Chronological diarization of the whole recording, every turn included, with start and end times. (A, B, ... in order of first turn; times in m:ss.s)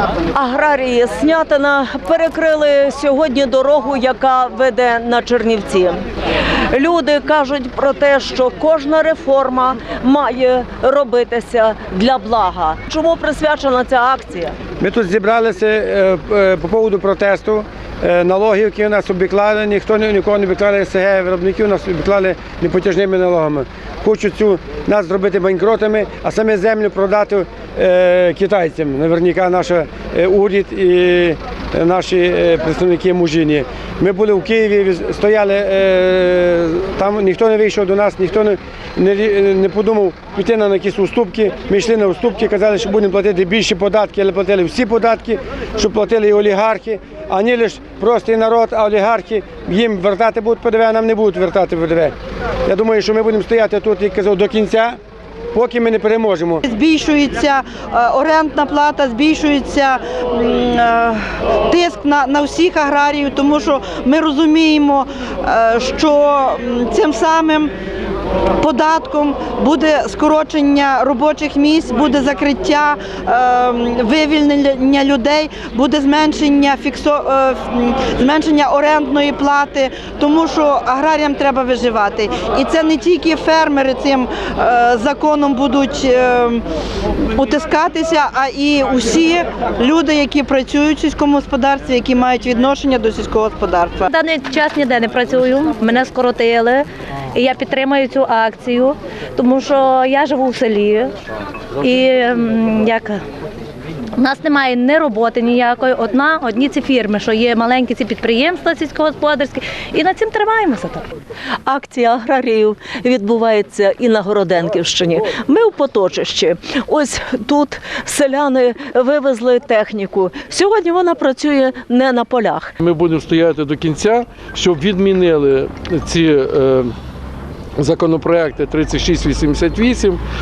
0:00.3-0:06.0 A
0:06.7-0:14.5 A
0:14.8-0:52.1 B
0:52.6-0:55.0 B
0:55.5-0:56.7 B
0:56.7-1:07.7 C
1:08.6-1:26.6 C
1:27.4-1:34.1 C
1:34.1-1:41.1 D
1:41.8-1:43.2 D
1:44.2-1:51.0 D
1:51.6-2:02.7 A
2:02.8-2:06.9 E
2:07.8-2:10.2 E